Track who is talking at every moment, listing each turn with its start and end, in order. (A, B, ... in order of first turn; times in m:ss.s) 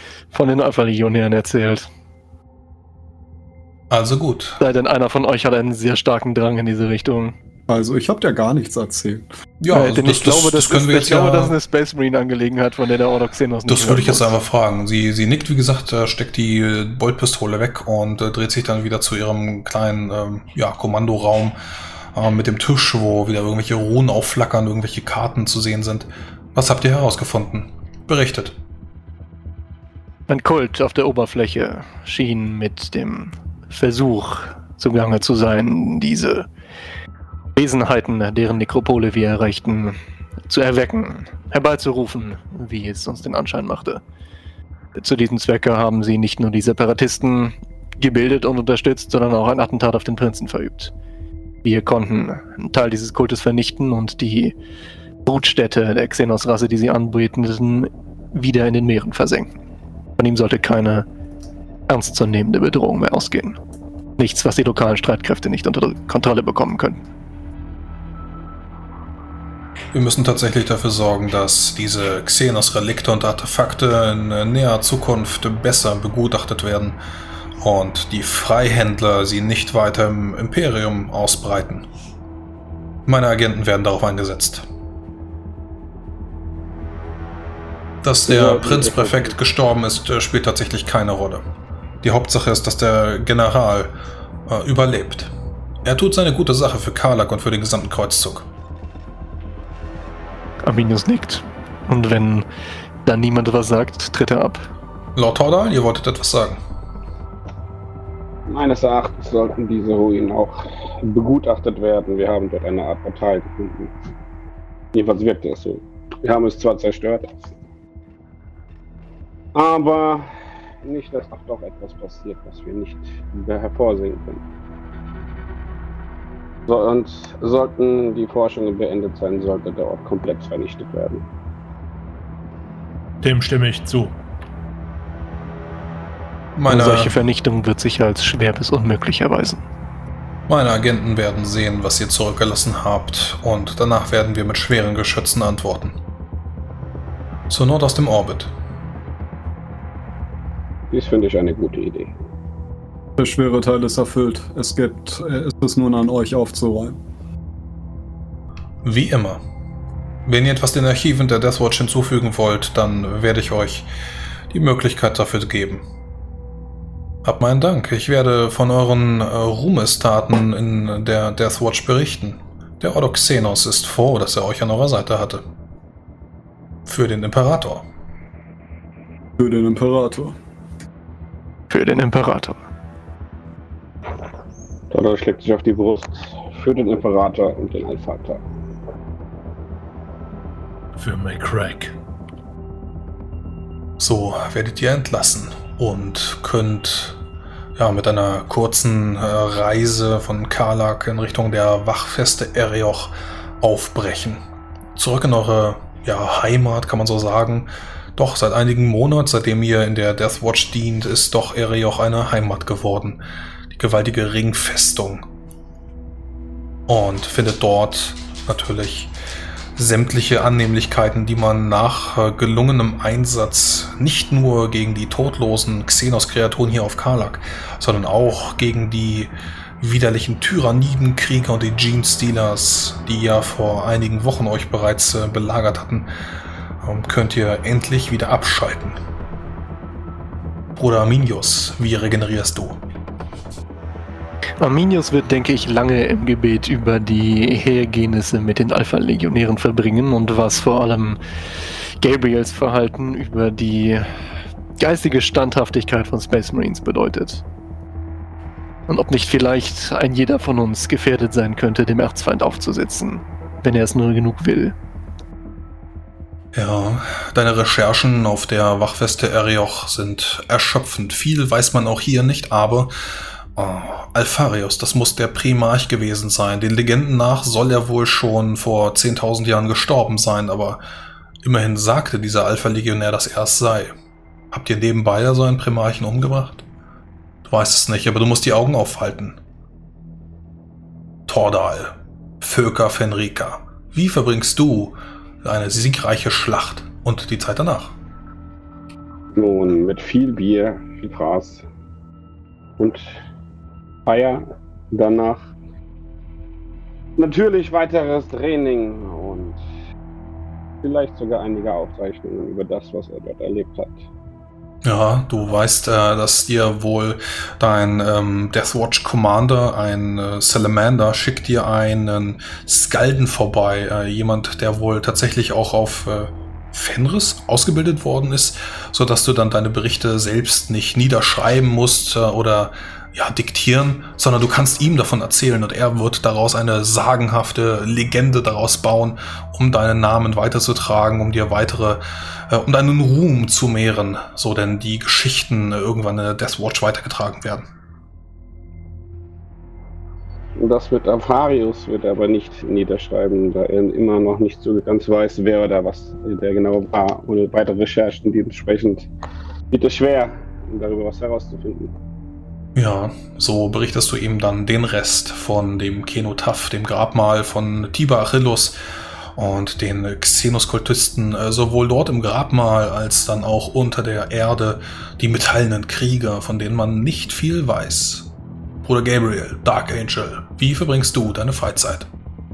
0:00.3-0:01.9 A
0:03.9-0:04.6 B
0:04.6-0:07.3 A
0:07.7-0:09.2 C
0:09.6-0:11.5 B
0:09.7-0:14.3 A
0:13.6-0:21.6 B
0:22.1-0:28.5 B
0:30.3-0:36.5 A
0:37.5-0:44.0 A
0:45.0-0:50.9 A
0:51.6-0:54.5 A
0:55.2-0:59.5 A
1:00.2-1:01.0 A
1:01.9-1:03.6 A
1:04.2-1:07.0 A
1:09.9-1:17.0 B
1:17.6-1:21.8 B
1:23.1-1:24.6 B
1:28.0-1:31.4 B
1:28.3-1:29.3 D
1:32.0-1:33.9 B
1:34.5-1:35.3 B
1:35.8-1:38.4 B
1:40.6-1:42.4 A
1:43.0-1:44.6 A
1:45.2-1:46.6 B
1:48.5-1:53.9 D
1:54.9-1:57.4 D
1:59.5-2:00.3 D
2:00.8-2:04.4 D
2:06.7-2:11.2 D
2:13.2-2:14.2 E
2:16.6-2:17.2 B
2:16.7-2:19.6 A
2:20.5-2:26.0 B
2:27.5-2:28.5 B
2:30.9-2:32.1 D
2:33.2-2:37.0 C
2:38.8-2:39.4 B
2:40.2-2:43.9 B
2:44.5-2:45.8 B
2:47.2-2:55.4 B
2:56.8-2:57.8 B
2:59.4-3:00.4 C
3:01.7-3:02.6 A
3:04.9-3:08.4 D
3:11.0-3:11.9 E
3:14.0-3:17.2 B
3:17.8-3:24.4 B
3:25.0-3:33.2 B
3:33.7-3:35.3 B
3:36.9-3:39.1 B
3:39.8-3:56.1 B
3:56.8-3:59.0 B
4:00.8-4:02.8 B
4:04.6-4:11.2 A
4:12.0-4:14.3 A
4:14.8-4:17.4 A
4:18.9-4:24.7 A
4:26.5-4:32.9 B
4:33.6-4:40.8 B
4:41.4-4:43.9 B
4:44.5-4:46.6 B
4:47.4-4:49.4 B
4:51.3-4:57.9 B
4:59.3-5:01.6 D
5:02.8-5:03.2 D
5:04.0-5:05.5 D
5:07.2-5:09.6 D
5:10.8-5:14.0 D
5:14.8-5:47.7 B
5:50.6-5:59.1 D
5:59.7-6:01.9 D
6:02.7-6:08.8 B
6:09.4-6:18.3 B
6:18.8-6:22.1 B